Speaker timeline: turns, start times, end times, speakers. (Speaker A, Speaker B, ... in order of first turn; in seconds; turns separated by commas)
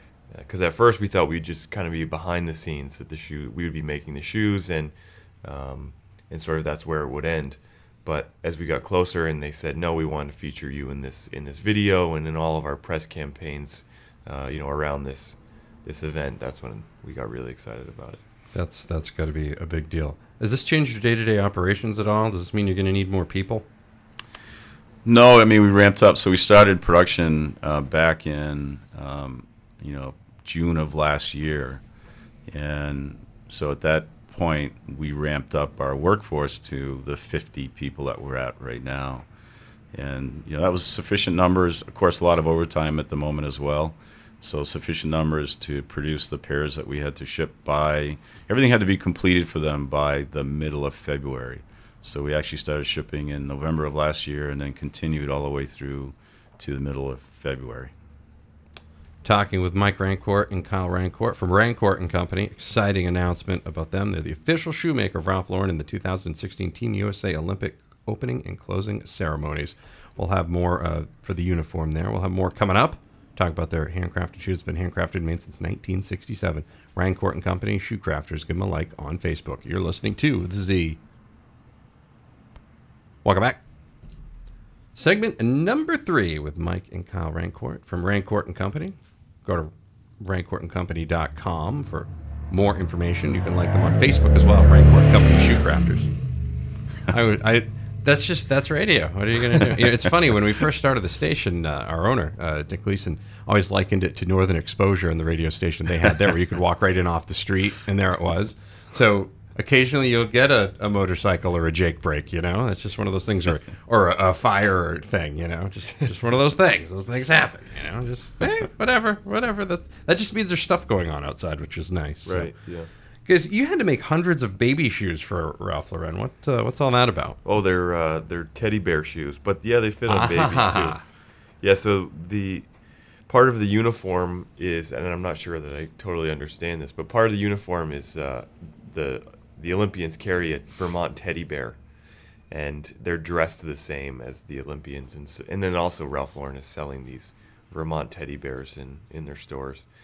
Speaker A: 0.3-18.2, Speaker B: 18.5-23.6, Speaker C: 25.0-31.8, Speaker C: 32.5-39.2, Speaker C: 39.9-57.9, Speaker B: 59.2-81.0, Speaker B: 83.2-83.6, Speaker B: 84.9-96.1, Speaker B: 97.1-122.5, Speaker A: 122.2-122.9, Speaker B: 123.2-127.6, Speaker A: 127.4-131.0, Speaker B: 130.1-131.0, Speaker A: 131.6-141.8, Speaker A: 142.5-149.9